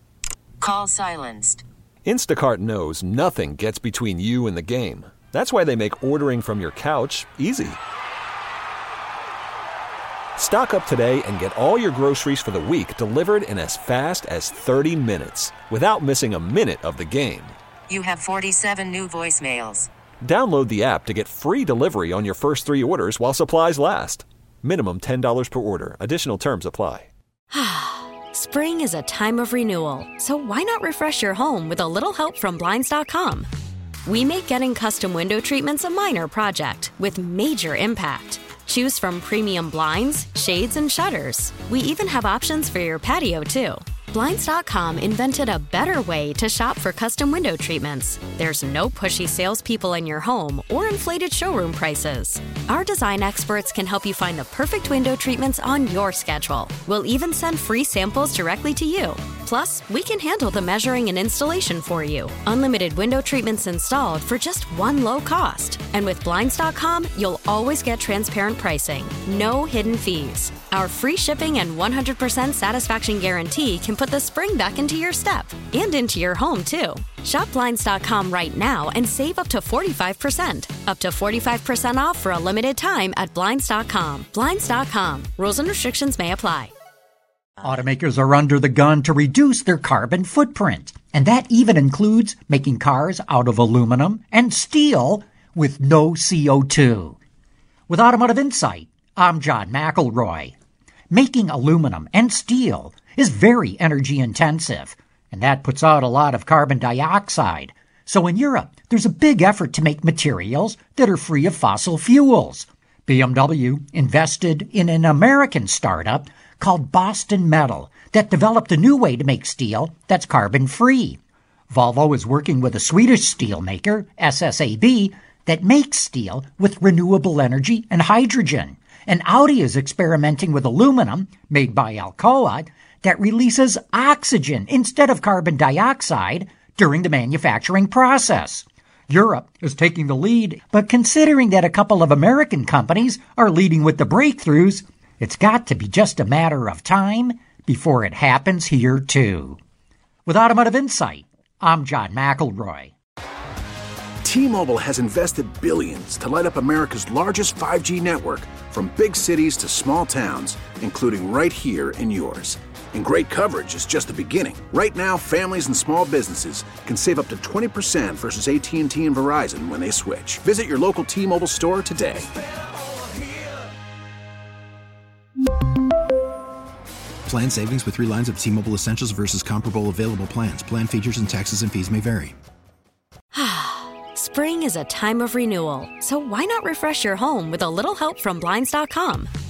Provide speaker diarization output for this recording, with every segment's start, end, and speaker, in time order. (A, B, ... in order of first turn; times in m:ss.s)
0:00.6-0:01.6 A
0:02.0-0:07.8 B
0:10.4-0:17.6 B
0:17.9-0:19.9 A
0:20.2-0:27.1 B
0:27.5-0:33.5 C
0:34.0-1:26.7 C
1:27.6-1:37.2 D
1:37.9-1:40.5 D
1:41.1-2:01.2 D
2:01.7-2:29.6 D
2:30.2-2:32.9 D
2:34.2-2:52.3 E
2:57.2-3:02.4 F
3:03.3-3:09.3 C